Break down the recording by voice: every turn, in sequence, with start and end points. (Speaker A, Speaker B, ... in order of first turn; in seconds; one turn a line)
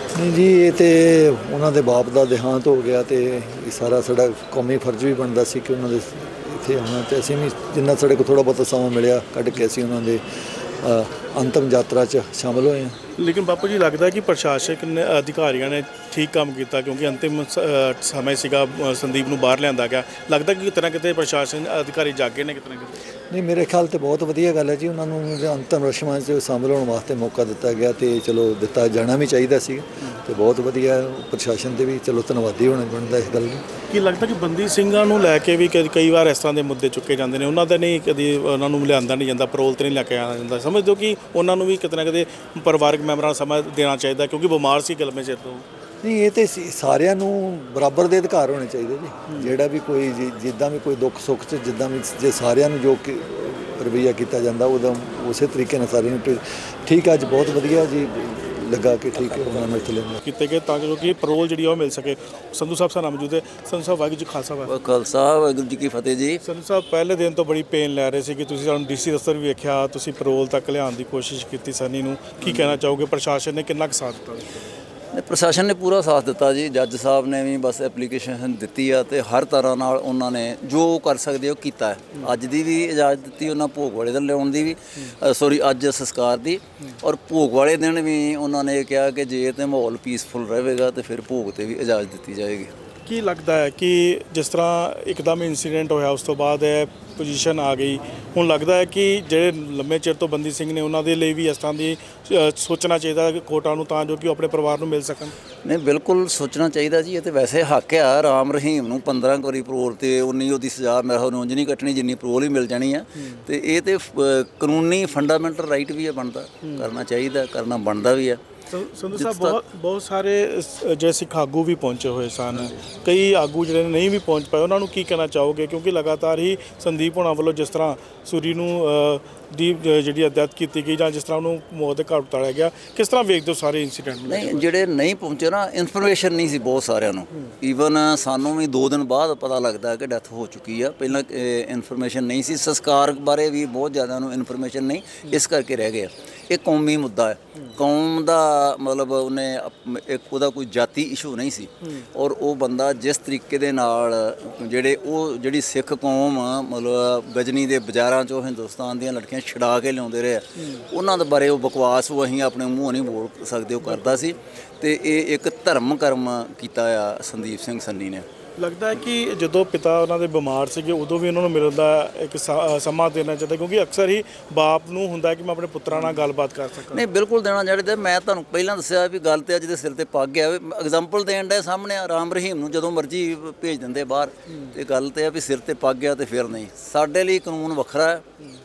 Speaker A: 0.1-10.2
Speaker A: 10.8-12.9
Speaker B: 13.2-22.9
Speaker A: 23.3-33.6
Speaker B: 33.9-45.6
Speaker A: 46.0-60.2
Speaker B: 60.2-64.7
Speaker C: 64.7-66.4
Speaker B: 66.4-74.6
Speaker C: 72.4-72.8
Speaker C: 75.1-92.7
Speaker B: 93.0-105.3
Speaker C: 105.6-118.4
Speaker B: 113.2-113.4
Speaker B: 116.6-116.9
Speaker B: 118.7-134.7
Speaker C: 119.1-119.6
Speaker C: 122.5-122.8
Speaker C: 134.3-168.2
Speaker B: 160.6-160.8
Speaker B: 163.8-164.3
Speaker B: 168.6-177.0
Speaker C: 175.9-176.2
Speaker C: 176.9-188.2